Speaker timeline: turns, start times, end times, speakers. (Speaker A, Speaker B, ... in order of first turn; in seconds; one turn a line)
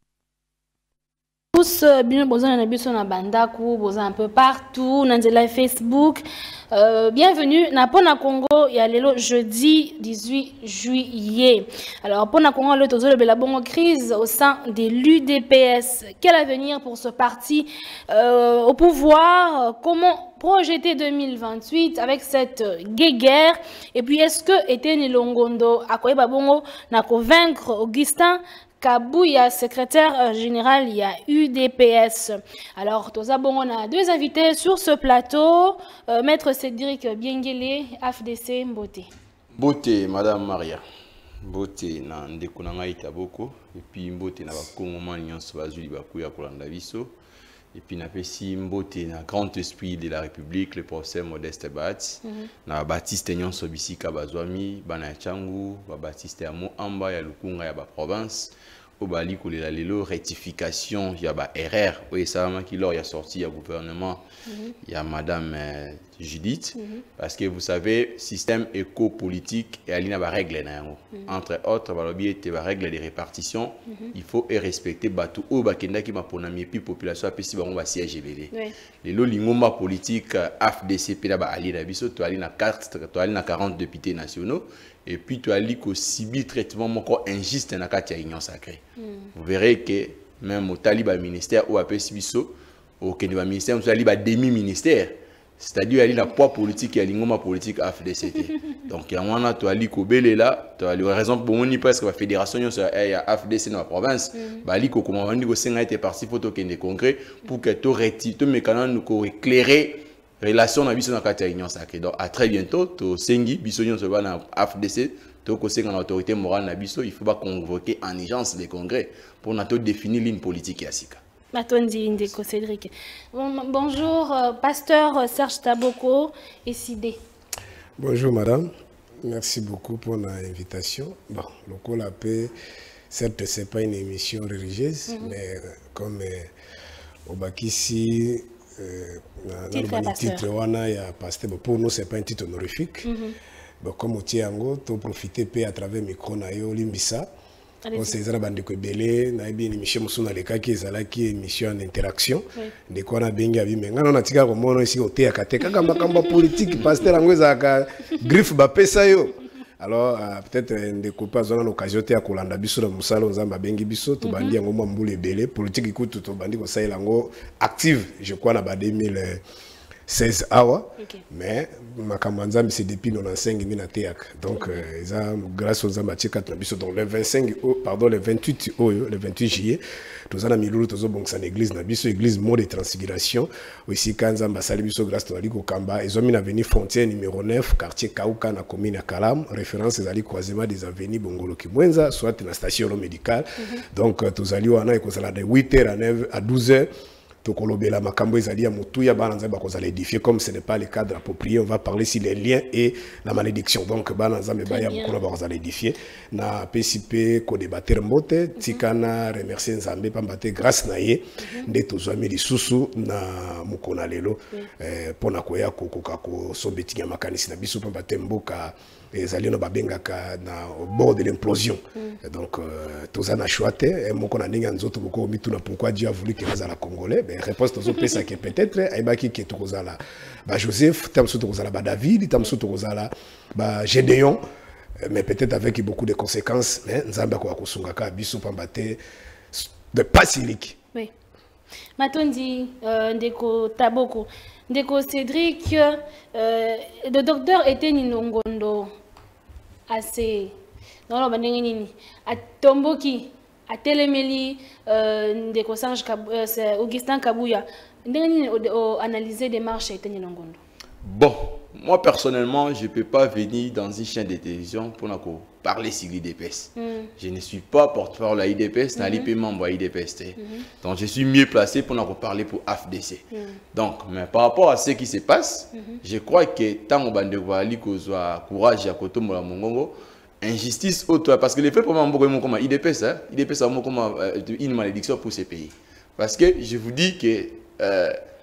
Speaker A: 1.6-39.1
Speaker B: 39.6-40.8
Speaker B: 41.4-47.1
Speaker B: 47.7-64.2
Speaker A: 64.5-64.7
Speaker B: 64.8-78.5
Speaker A: 66.8-67.0
Speaker B: 79.0-88.8
Speaker B: 89.3-121.2
Speaker A: 121.5-127.2
Speaker C: 128.0-128.7
Speaker C: 129.2-132.5
Speaker C: 133.1-136.5
Speaker A: 135.1-135.3
Speaker C: 137.3-143.1
Speaker A: 139.7-140.5
Speaker A: 143.0-143.4
Speaker C: 143.8-147.3
Speaker A: 147.8-148.2
Speaker C: 147.9-169.4
Speaker A: 164.2-164.6
Speaker C: 170.1-196.9
Speaker A: 174.5-174.8
Speaker C: 197.4-234.4
Speaker A: 204.7-205.2
Speaker A: 211.4-211.7
Speaker C: 235.0-239.0
Speaker C: 239.5-240.8
Speaker A: 242.0-248.9
Speaker A: 249.9-250.5
Speaker A: 251.1-260.6
Speaker B: 261.0-288.2
Speaker A: 266.8-267.1
Speaker A: 269.0-269.3
Speaker A: 270.4-270.6
Speaker A: 273.3-273.6